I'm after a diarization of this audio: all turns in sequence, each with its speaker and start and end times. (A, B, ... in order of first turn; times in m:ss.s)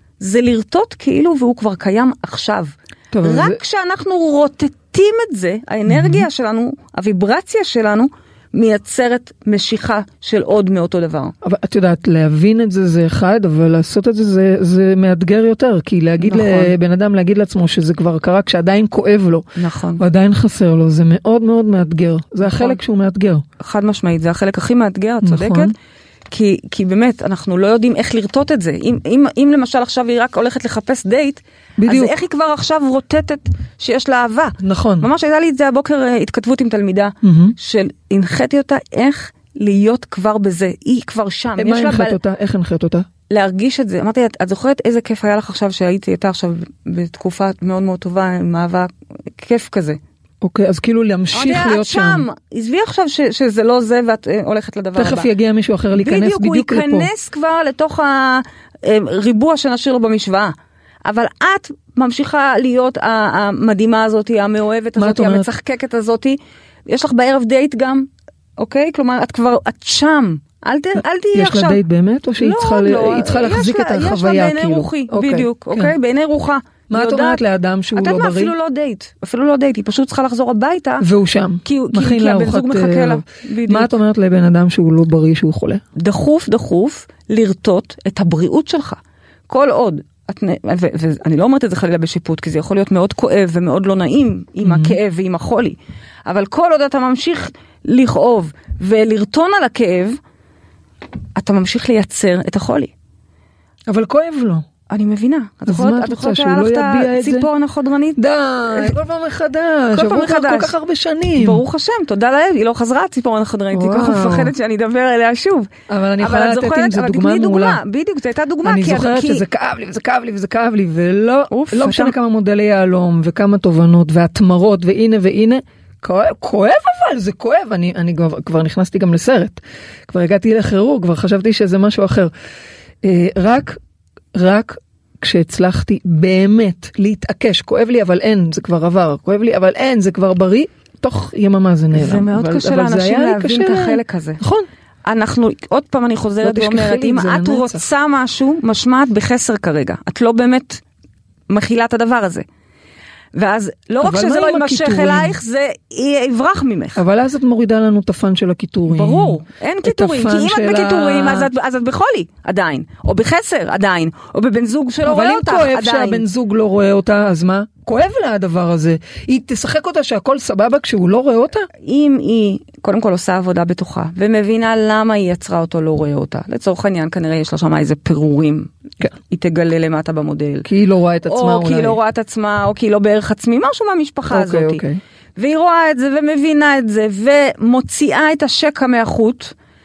0:00.2-0:11.3 A
0:03.1-0:03.6 B
0:05.9-0:06.3 B
0:11.4-0:19.4 B
0:16.2-0:16.7 A
0:19.6-0:20.0 A
0:20.0-0:23.4 B
0:22.4-0:22.8 A
0:23.6-0:25.7 A
0:25.2-0:25.7 B
0:26.3-0:42.2 A
0:31.8-0:32.1 B
0:34.6-0:35.1 B
0:37.2-0:37.6 B
0:41.6-0:43.1 B
0:43.3-0:50.0 A
0:50.4-0:52.2 B
0:51.3-0:55.3 A
0:55.0-0:57.1 B
0:56.0-1:00.5 A
1:01.0-1:11.8 A
1:05.0-1:05.5 B
1:11.3-1:15.9 B
1:12.4-1:17.4 A
1:16.9-1:18.5 B
1:17.9-1:21.0 A
1:21.0-1:25.8 B
1:21.6-1:23.9 A
1:26.0-1:40.2 A
1:34.6-1:35.0 B
1:41.4-1:42.9 A
1:43.9-1:44.6 B
1:44.9-1:48.2 A
1:45.7-1:47.5 B
1:48.2-1:51.6 B
1:49.9-1:50.7 A
1:51.4-1:59.4 A
1:53.7-1:54.5 B
1:55.9-1:57.8 B
1:58.6-2:12.3 B
2:01.5-2:02.1 A
2:13.0-2:13.8 B
2:14.3-2:24.7 B
2:21.9-2:24.4 A
2:25.0-2:30.8 A
2:26.4-2:27.8 B
2:31.5-2:32.4 A
2:33.3-2:37.0 A
2:34.0-2:35.4 B
2:37.0-2:41.5 B
2:38.9-2:46.2 A
2:45.0-2:51.7 B
2:51.8-2:58.7 A
2:59.3-3:00.7 A
3:00.6-3:02.0 B
3:01.3-3:04.8 A
3:04.3-3:05.0 B
3:05.4-3:09.5 A